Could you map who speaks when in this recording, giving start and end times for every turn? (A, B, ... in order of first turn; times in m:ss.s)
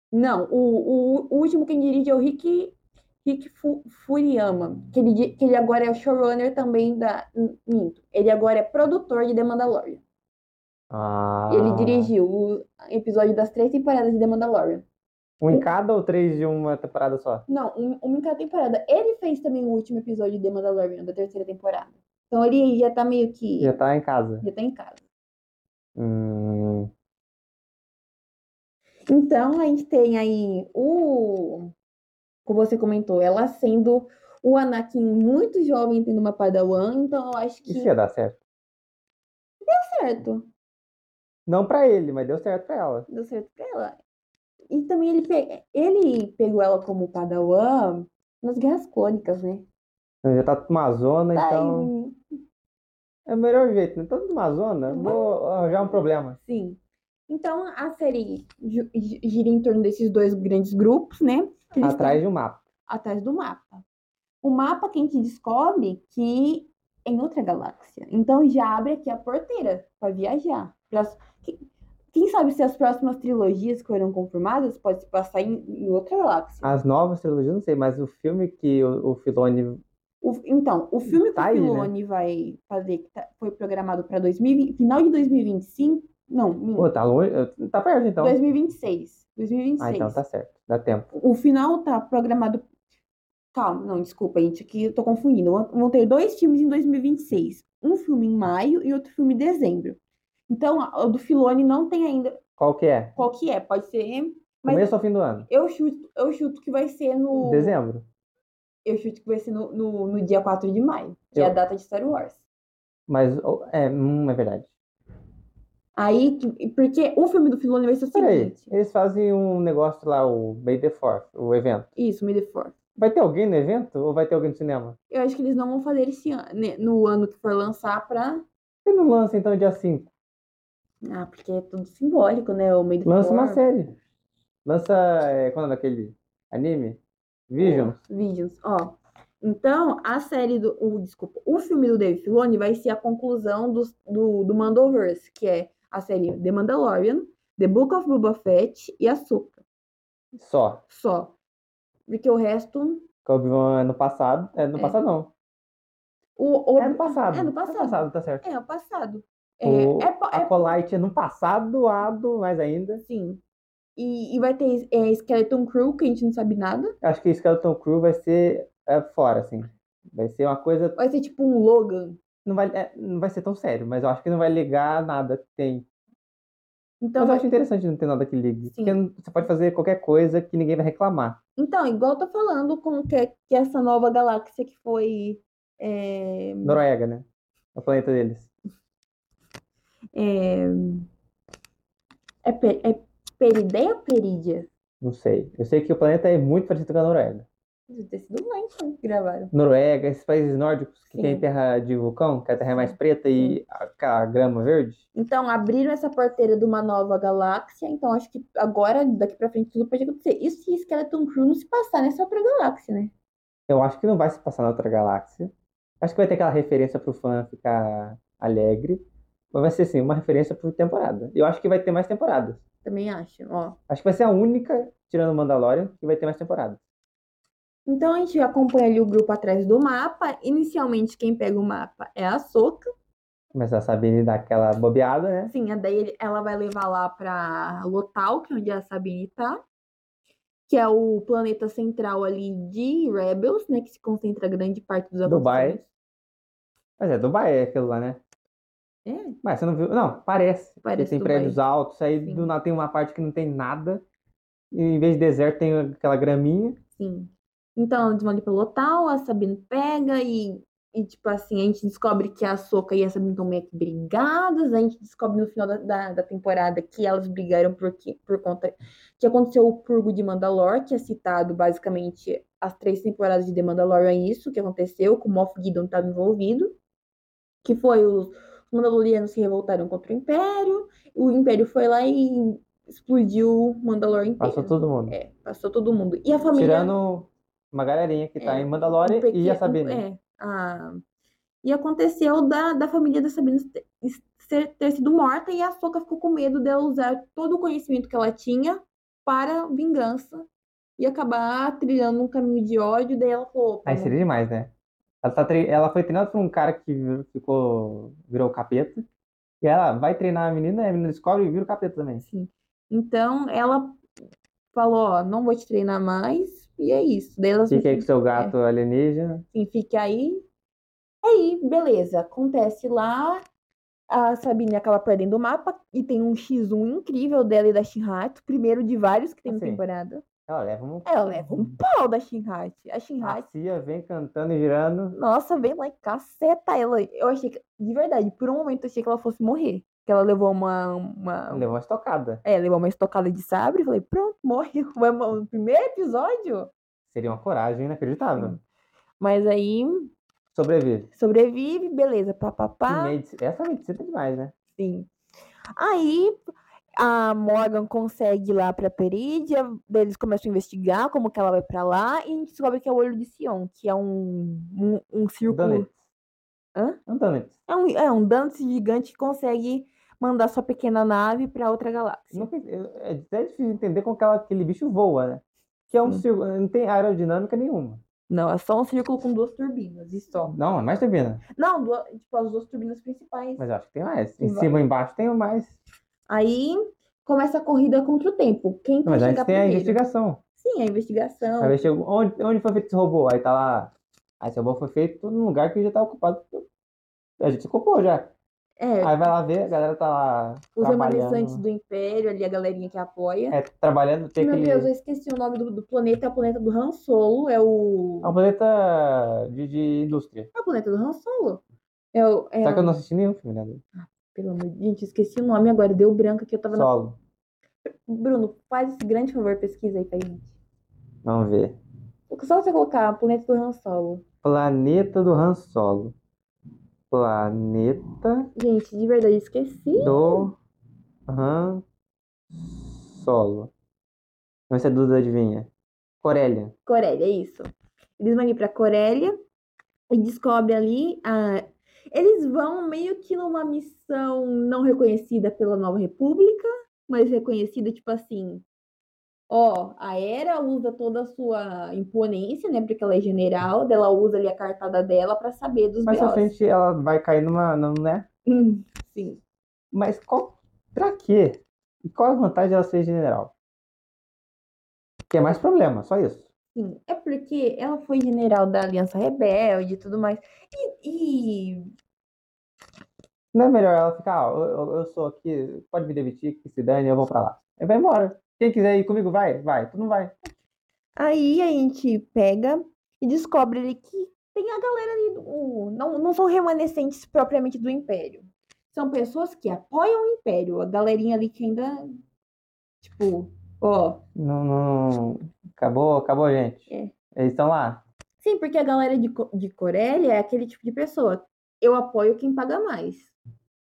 0:00.1-0:10.0 A
0:10.9-0:12.1 B
0:11.5-0:14.8 A
0:15.4-0:17.4 B
0:17.5-0:23.8 A
0:23.6-0:24.4 B
0:24.4-0:25.0 A
0:26.0-0:26.9 B
0:29.1-0:31.7 A
0:32.4-0:37.9 A
0:37.7-0:38.4 B
0:39.7-0:40.5 A
0:41.4-0:43.1 B
0:43.1-0:44.0 A
0:44.7-0:49.6 A
0:50.2-0:51.9 B
0:51.3-0:52.2 A
0:53.2-0:56.4 B
0:54.9-0:55.3 A
0:56.4-1:02.2 A
1:01.8-1:02.6 B
1:02.8-1:03.8 A
1:04.4-1:11.6 A
1:12.1-1:16.7 A
1:16.6-1:19.8 B
1:20.2-1:26.9 A
1:21.1-1:21.9 B
1:26.8-1:28.4 B
1:28.2-1:30.2 A
1:29.8-1:31.1 B
1:31.1-1:32.6 A
1:33.5-1:42.4 A
1:42.6-1:43.1 B
1:43.2-1:44.9 A
1:44.6-1:45.5 B
1:45.5-1:47.8 A
1:47.4-1:48.0 B
1:48.8-1:52.4 A
1:53.1-1:54.7 B
1:55.9-1:58.7 A
1:58.1-2:01.9 B
2:02.0-2:02.7 A
2:03.0-2:05.0 B
2:05.1-2:08.4 A
2:08.8-2:10.1 B
2:11.0-2:13.6 A
2:13.0-2:13.9 B
2:14.6-2:18.0 B
2:17.6-2:29.6 A
2:30.3-2:30.8 B
2:30.9-2:31.3 A
2:32.1-2:33.0 A
2:33.2-2:35.3 B
2:36.4-2:40.8 A
2:36.8-2:38.4 B
2:39.6-2:43.0 B
2:43.0-2:43.4 A
2:44.0-2:46.9 A
2:47.0-2:51.0 B
2:51.0-2:52.2 A
2:52.4-2:55.8 B
2:57.0-2:57.5 A
2:57.2-3:01.4 B
2:58.7-2:59.0 A
3:01.6-3:06.8 A
3:06.6-3:08.5 B
3:10.1-3:11.1 A
3:12.4-3:14.7 A
3:15.0-3:17.4 B
3:17.9-3:19.5 A
3:19.5-3:25.0 B
3:21.1-3:21.4 A
3:22.7-3:23.6 A
3:25.1-3:33.1 A
3:33.7-3:42.6 B
3:42.8-3:43.8 A
3:43.9-3:46.8 B
3:47.8-3:52.9 A
3:53.5-3:55.5 B
3:55.5-3:59.6 A
4:00.7-4:05.8 A
4:05.2-4:05.8 B
4:07.0-4:08.2 B
4:09.0-4:09.4 A
4:09.4-4:14.0 B
4:10.8-4:11.6 A
4:12.2-4:12.5 A
4:14.7-4:16.8 B
4:17.0-4:36.8 A
4:37.6-4:46.9 A
4:44.4-4:45.2 B
4:46.5-4:50.0 B
4:48.4-4:51.0 A
4:51.6-5:00.5 A
5:01.0-5:04.2 A
5:03.8-5:04.7 B
5:05.2-5:09.0 B
5:09.6-5:12.2 B
5:12.2-5:14.0 A
5:14.7-5:18.5 A
5:17.7-5:19.4 B
5:19.5-5:20.4 A
5:21.2-5:23.4 A
5:24.1-5:30.2 A
5:29.4-5:29.8 B
5:30.5-5:31.1 B
5:31.0-5:33.5 A
5:33.2-5:35.2 B
5:35.1-5:41.7 A
5:41.5-5:42.4 B
5:42.4-5:46.7 A
5:47.1-5:48.6 B
5:49.2-5:50.1 A
5:50.5-5:51.1 B
5:51.1-5:53.2 A
5:52.9-5:54.5 B
5:54.8-5:55.1 A
5:55.8-5:56.4 A
5:57.0-6:05.9 A
6:05.5-6:06.0 B
6:07.1-6:07.5 B
6:07.7-6:12.5 A
6:12.3-6:18.0 B
6:18.3-6:20.6 A
6:20.5-6:21.4 B
6:21.6-6:23.6 A
6:23.6-6:25.8 B
6:24.4-6:24.7 A
6:26.3-6:30.0 A
6:29.0-6:30.4 B
6:30.6-6:31.8 A
6:31.6-6:36.6 B
6:37.4-6:38.3 B
6:38.8-6:39.2 A
6:39.0-6:41.6 B
6:40.8-6:43.6 A
6:43.5-6:44.9 B
6:44.4-6:48.3 A
6:48.2-6:50.5 B
6:50.5-6:51.6 A
6:52.1-6:52.9 A
6:52.6-6:53.8 B
6:54.0-6:56.9 A
6:56.7-6:57.2 B
6:58.1-7:00.5 A
7:01.2-7:01.8 B
7:02.3-7:04.2 A
7:04.4-7:06.1 B
7:07.1-7:08.5 B
7:08.6-7:10.5 A
7:10.0-7:10.5 B
7:11.3-7:11.8 B
7:12.5-7:13.7 B
7:14.7-7:15.7 B
7:16.2-7:16.7 B
7:16.8-7:17.7 A
7:18.2-7:19.3 A
7:20.1-7:28.6 A
7:29.5-7:36.5 A
7:36.0-7:38.2 B
7:38.5-7:39.4 A
7:39.9-7:43.5 B
7:45.3-7:46.5 B
7:46.7-7:51.9 A
7:53.5-8:00.3 B
8:01.2-8:12.1 A
8:13.0-8:14.2 A
8:14.4-8:18.0 B
8:18.4-8:23.3 A